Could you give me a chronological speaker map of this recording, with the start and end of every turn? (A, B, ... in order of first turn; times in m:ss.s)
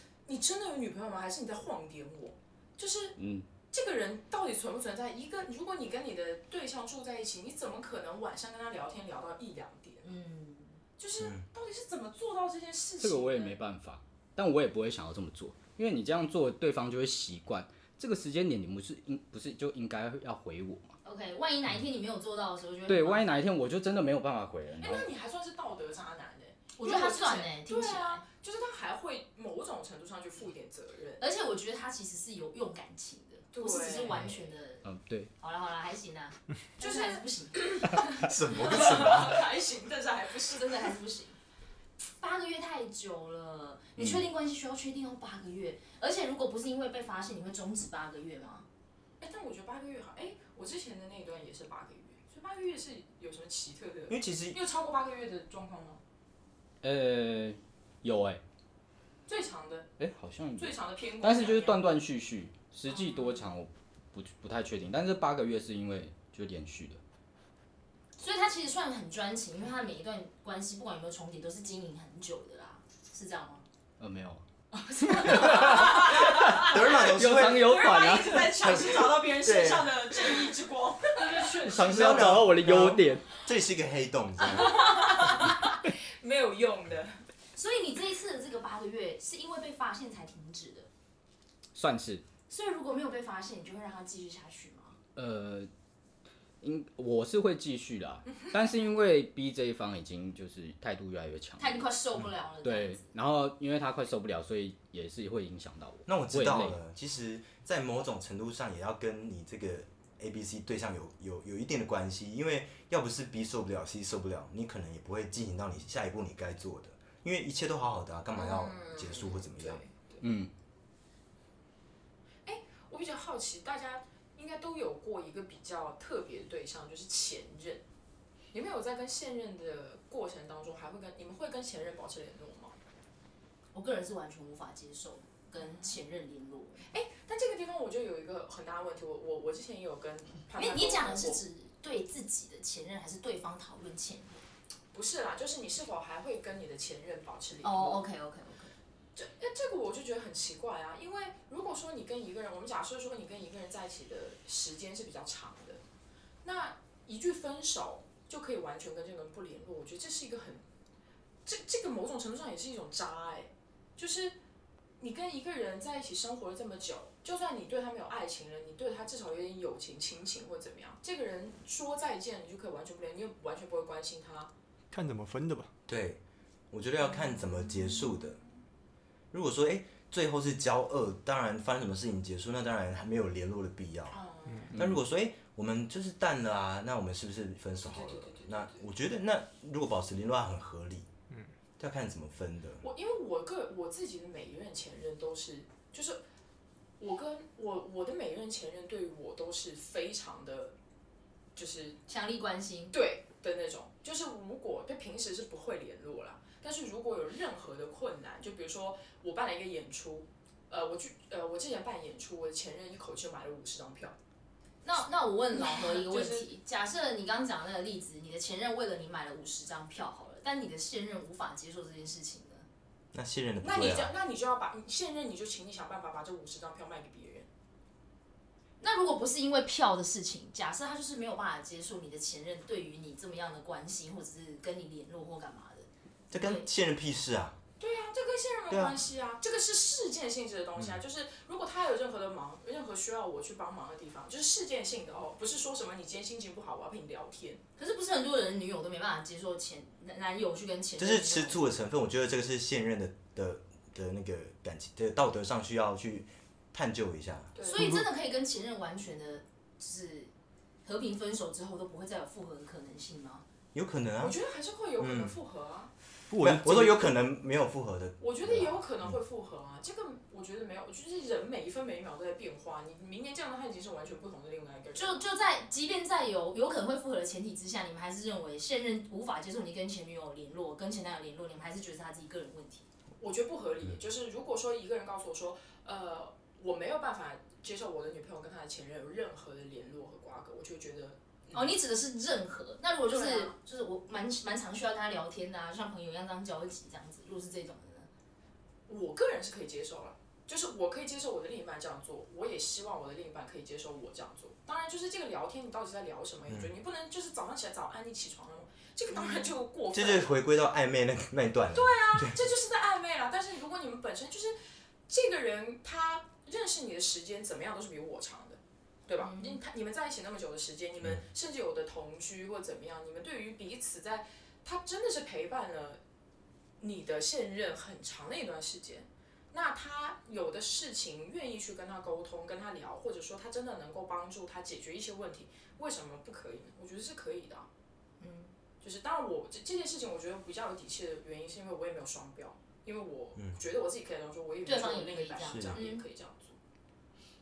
0:00.3-0:03.2 A
0:03.2-0:03.5 B
0:03.7-0:10.1 A
0:10.0-0:10.8 C
0:11.0-0:13.6 A
0:11.2-0:11.4 D
0:13.0-0:21.0 B
0:21.0-0:23.4 C
0:22.9-0:25.1 B
0:24.8-0:31.2 A
0:26.8-0:28.2 C
0:31.2-0:34.9 C
0:33.5-0:34.4 A
0:34.8-0:35.3 B
0:35.4-0:37.8 C
0:36.8-0:40.9 A
0:38.0-0:39.4 D
0:40.5-0:41.4 C
0:42.2-0:48.7 C
0:49.2-0:56.0 A
0:54.1-0:54.6 D
0:56.8-0:58.4 B
0:59.3-0:59.9 A
1:00.0-1:07.0 B
1:00.6-1:01.9 A
1:02.9-1:03.4 A
1:08.2-1:13.6 C
1:14.0-1:14.4 B
1:14.9-1:16.8 A
1:15.1-1:18.8 B
1:16.0-1:17.8 D
1:17.4-1:22.4 A
1:18.6-1:20.0 D
1:21.6-1:23.2 B
1:21.8-1:25.3 D
1:24.4-1:27.2 A
1:27.6-1:30.9 C
1:31.7-1:32.2 B
1:32.5-1:35.0 C
1:35.2-1:35.7 B
1:36.6-1:41.9 B
1:41.6-1:43.1 C
1:42.6-1:46.8 B
1:46.1-1:59.8 D
1:58.4-2:00.2 A
2:00.2-2:00.5 B
2:02.5-2:07.8 A
2:08.5-2:12.8 A
2:13.7-2:16.9 C
2:16.9-2:21.4 A
2:20.6-2:24.4 C
2:24.9-2:28.0 A
2:27.6-2:28.8 C
2:29.2-2:35.8 A
2:36.4-2:40.6 A
2:41.4-2:44.4 A
2:45.0-2:54.5 A
2:54.9-2:55.7 E
2:55.9-2:56.2 D
2:56.7-2:58.4 D
2:59.3-3:04.2 D
3:04.1-3:04.8 A
3:04.7-3:05.0 B
3:04.7-3:11.1 D
3:07.8-3:08.8 A
3:11.8-3:12.8 D
3:12.8-3:16.2 A
3:17.0-3:20.8 A
3:21.6-3:22.0 A
3:22.1-3:23.0 C
3:22.9-3:34.2 A
3:34.8-3:42.7 C
3:35.5-3:36.5 A
3:43.1-3:44.1 D
3:43.6-3:47.5 A
3:48.8-3:56.7 C
3:56.3-3:57.6 D
3:57.8-4:07.6 A
3:58.7-3:59.0 D
4:07.8-4:11.6 C
4:11.0-4:17.6 D
4:17.6-4:17.9 A
4:17.6-4:20.3 C
4:17.8-4:18.0 E
4:20.8-4:23.4 C
4:23.7-4:24.4 D
4:24.2-4:25.9 A
4:25.0-4:25.4 D
4:26.3-4:27.1 E
4:26.4-4:29.1 D
4:28.2-4:35.3 A
4:35.0-4:42.9 C
4:43.2-4:51.8 A
4:51.5-4:58.1 C
4:53.1-4:53.6 A
4:58.9-5:10.4 A
5:09.1-5:09.5 C
5:09.9-5:12.4 D
5:11.7-5:14.6 A
5:15.1-5:26.0 A
5:19.2-5:19.6 C
5:26.8-5:37.7 A
5:38.2-5:38.5 C
5:38.8-5:46.6 A
5:44.6-5:46.0 C
5:45.5-5:45.8 D